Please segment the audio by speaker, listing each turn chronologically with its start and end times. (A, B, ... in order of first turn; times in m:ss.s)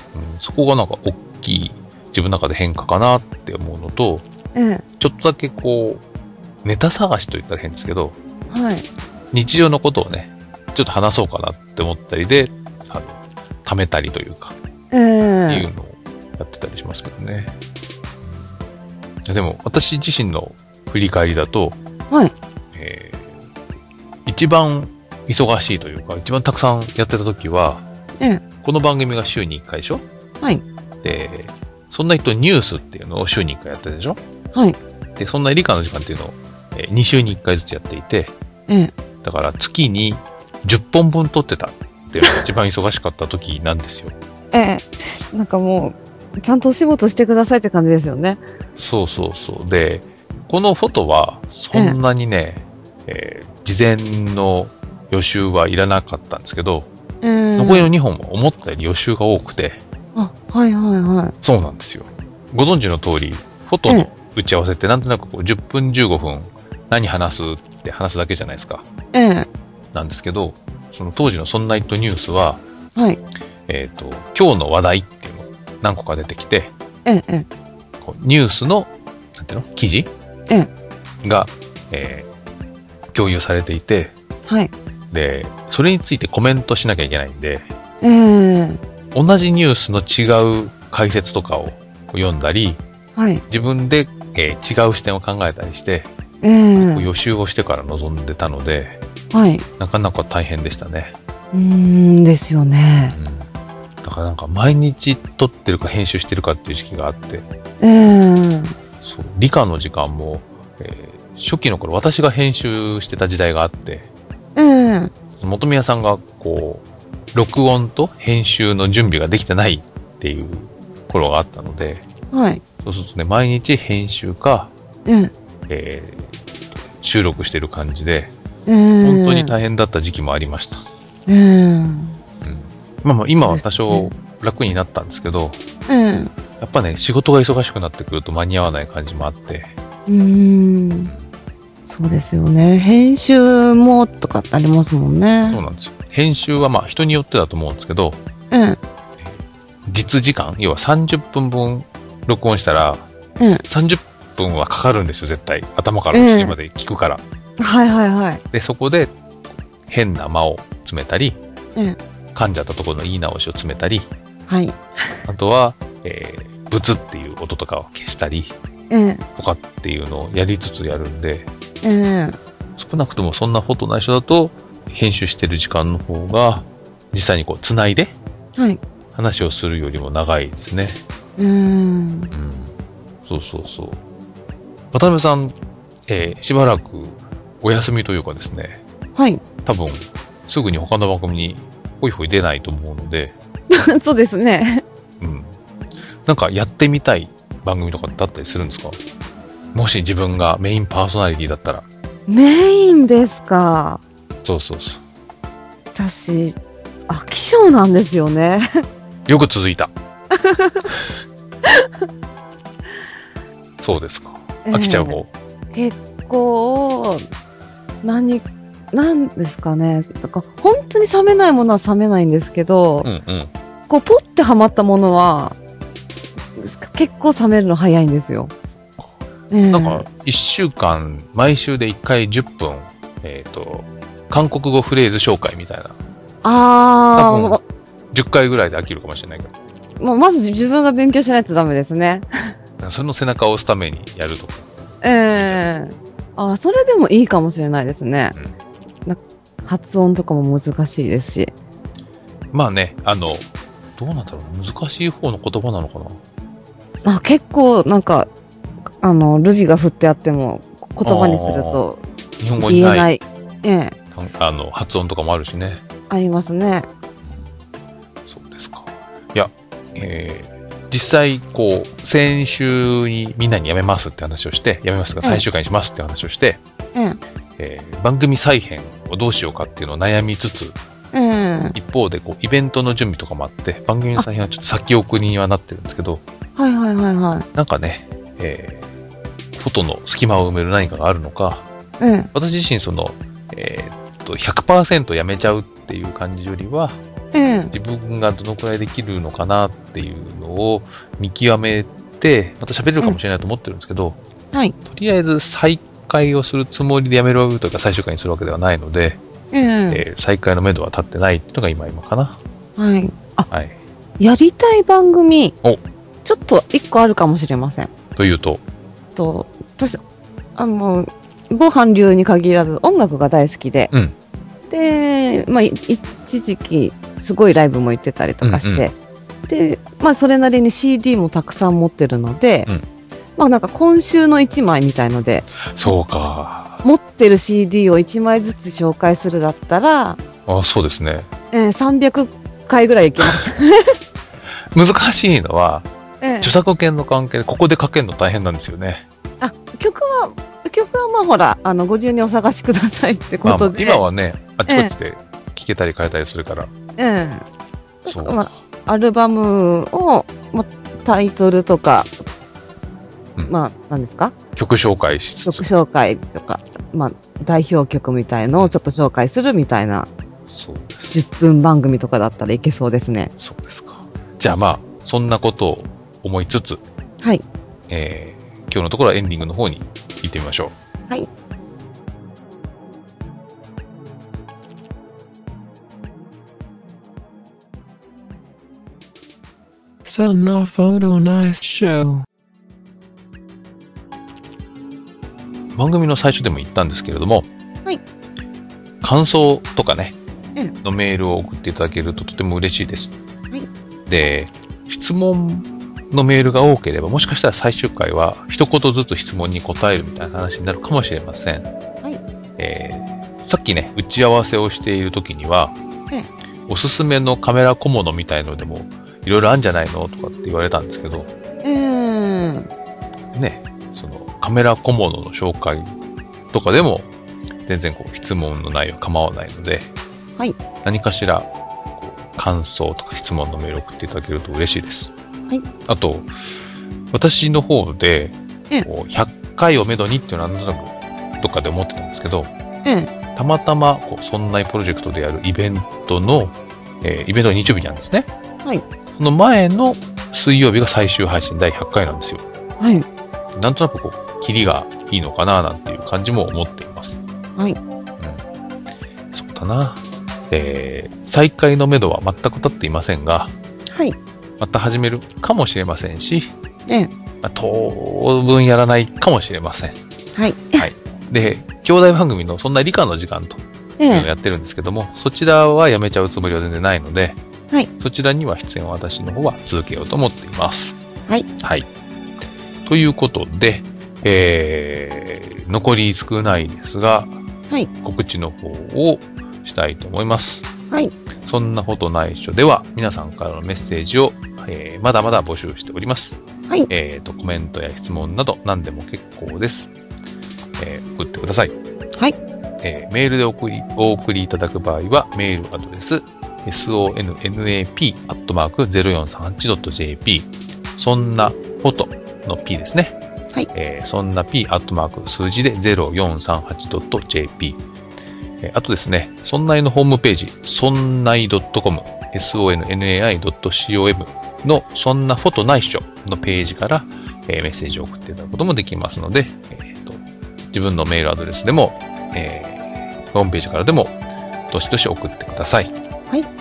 0:00.1-0:04.2 A
0:04.6-0:04.8 B
0:05.0-0:06.0 A
0:06.6-0:08.2 A
0:08.5-0:08.8 B
0:09.3-0:14.6 A
0:14.9-0:15.6 B
0:15.5-0:17.5 A
0:19.3-0:21.8 A
0:22.7-0:23.4 A
0:24.3-0:27.9 A
0:28.6-0:30.0 A
0:31.0-0:34.2 A
0:35.2-0:38.3 A
0:38.7-0:38.9 B
0:39.2-0:44.2 A
0:44.5-0:48.4 B
0:48.8-0:56.9 A
0:57.2-0:57.9 B
0:57.6-0:59.8 A
1:00.1-1:01.4 B
1:01.4-1:08.8 A
1:09.1-1:09.5 B
1:09.9-1:12.6 A
1:13.7-1:16.7 A
1:17.0-1:17.5 B
1:18.0-1:20.1 A
1:21.2-1:22.3 A
1:23.1-1:24.1 A
1:24.5-1:24.7 B
1:25.1-1:27.7 A
1:28.0-1:28.8 B
1:29.1-1:32.8 A
1:33.2-1:33.4 B
1:33.5-1:36.1 A
1:36.4-1:37.1 B
1:36.8-1:39.0 A
1:39.3-1:39.6 B
1:39.8-1:41.1 A
1:41.5-1:43.2 B
1:43.1-1:43.5 A
1:44.0-1:47.5 A
1:47.8-1:48.8 B
1:49.0-1:54.1 A
1:54.6-1:55.1 B
1:55.4-2:02.0 A
2:02.3-2:02.6 B
2:02.8-2:04.7 A
2:05.1-2:05.3 B
2:05.7-2:06.4 A
2:07.0-2:08.3 A
2:08.6-2:09.5 B
2:09.0-2:10.8 A
2:11.3-2:12.2 B
2:12.4-2:15.6 A
2:13.4-2:14.1 B
2:15.9-2:16.3 B
2:16.6-2:19.7 A
2:20.1-2:21.1 B
2:21.9-2:25.6 B
2:25.5-2:28.2 A
2:28.5-2:28.8 B
2:29.2-2:33.1 A
2:33.6-2:37.2 A
2:36.1-2:36.6 B
2:37.6-2:38.4 B
2:38.5-2:39.1 A
2:39.9-2:41.4 A
2:42.4-2:44.1 A
2:44.5-2:45.2 B
2:45.3-2:48.6 A
2:48.9-2:49.2 B
2:49.4-2:51.5 A
2:51.8-2:52.4 B
2:52.8-2:58.1 A
2:59.1-3:01.0 A
3:01.4-3:02.3 B
3:02.3-3:02.7 A
3:03.3-3:04.0 A
3:04.9-3:05.6 A
3:06.1-3:08.8 A
3:09.2-3:09.4 B
3:09.6-3:13.4 A
3:13.7-3:14.8 B
3:15.2-3:15.5 A
3:16.3-3:19.0 A
3:19.7-3:21.9 A
3:22.3-3:24.0 B
3:24.4-3:25.0 A
3:26.0-3:28.8 B
3:29.3-3:29.9 A
3:30.3-3:30.9 B
3:31.6-3:32.0 B
3:33.8-3:35.3 A
3:34.7-3:35.2 B
3:35.7-3:37.2 B
3:38.0-3:43.1 B
3:43.0-3:43.5 A
3:43.9-3:45.6 B
3:46.6-3:48.5 B
3:49.5-3:50.0 B
3:49.7-3:56.0 A
3:56.4-3:57.6 B
3:57.2-3:57.6 A
3:58.1-3:59.5 A
4:00.0-4:02.3 B
4:02.8-4:05.6 A
4:05.0-4:08.4 B
4:09.1-4:11.5 B
4:12.5-4:16.2 A
4:17.0-4:18.3 B
4:19.0-4:22.0 B
4:21.0-4:21.8 A
4:22.4-4:23.1 A
4:22.6-4:24.0 B
4:24.1-4:25.8 A
4:26.1-4:26.9 B
4:27.2-4:27.5 A
4:28.3-4:36.6 A
4:36.9-4:37.2 B
4:37.6-4:40.8 A
4:41.1-4:41.8 B
4:41.8-4:46.2 A
4:46.6-4:47.5 B
4:47.6-4:48.8 A
4:49.6-4:51.6 A
4:52.0-4:52.3 B
4:52.3-4:57.0 A
4:57.3-4:57.7 B
4:57.7-5:04.2 A
5:04.8-5:09.2 A
5:09.5-5:10.0 B
5:09.9-5:12.4 A
5:12.8-5:13.5 B
5:13.5-5:13.8 A
5:14.2-5:15.6 B
5:16.2-5:17.9 B
5:18.2-5:18.6 A
5:19.1-5:20.0 B
5:20.6-5:23.9 B
5:24.7-5:28.9 B
5:28.4-5:28.9 A
5:29.4-5:32.7 B
5:33.4-5:35.5 B
5:35.6-5:36.8 A
5:36.8-5:40.2 B
5:40.5-5:41.3 A
5:41.5-5:44.0 B
5:44.7-5:45.9 A
5:46.2-5:46.5 B
5:46.4-5:49.0 A
5:49.4-5:54.0 B
5:53.4-5:56.7 A
5:57.0-5:57.4 B
5:58.0-6:02.1 B
5:58.1-5:58.4 A
6:03.5-6:04.4 B
6:04.6-6:05.6 A
6:05.4-6:10.1 B
6:10.5-6:11.2 A
6:11.1-6:13.3 B
6:13.4-6:16.8 A
6:17.9-6:20.8 A
6:30.0-6:32.2 C
6:35.8-6:37.5 A
6:39.0-6:40.2 A
6:40.8-6:43.1 A
6:44.1-6:51.7 A
6:52.6-6:55.8 A
6:56.7-7:01.3 A
7:01.6-7:02.7 B
7:03.3-7:05.9 A
7:06.5-7:07.1 A
7:07.6-7:09.9 A
7:10.8-7:15.1 A
7:15.9-7:16.3 A
7:17.1-7:22.5 A
7:22.8-7:23.1 B
7:23.4-7:28.3 A
7:29.2-7:32.4 A
7:32.8-7:33.1 B
7:33.6-7:37.2 A
7:38.2-7:38.4 A
7:39.3-7:43.5 A
7:43.9-7:44.2 B
7:44.6-7:46.5 A
7:47.4-7:50.0 A
7:50.4-7:50.9 B
7:50.8-7:57.4 A
7:54.0-7:54.3 B
7:58.0-8:01.0 A
8:01.6-8:01.9 A
8:02.8-8:07.4 A
8:08.0-8:10.7 A
8:11.4-8:19.9 A
8:20.8-8:21.8 A
8:22.8-8:33.2 A
8:33.7-8:37.8 A
8:38.6-8:50.2 A
8:50.7-8:54.2 A
8:54.7-8:55.9 A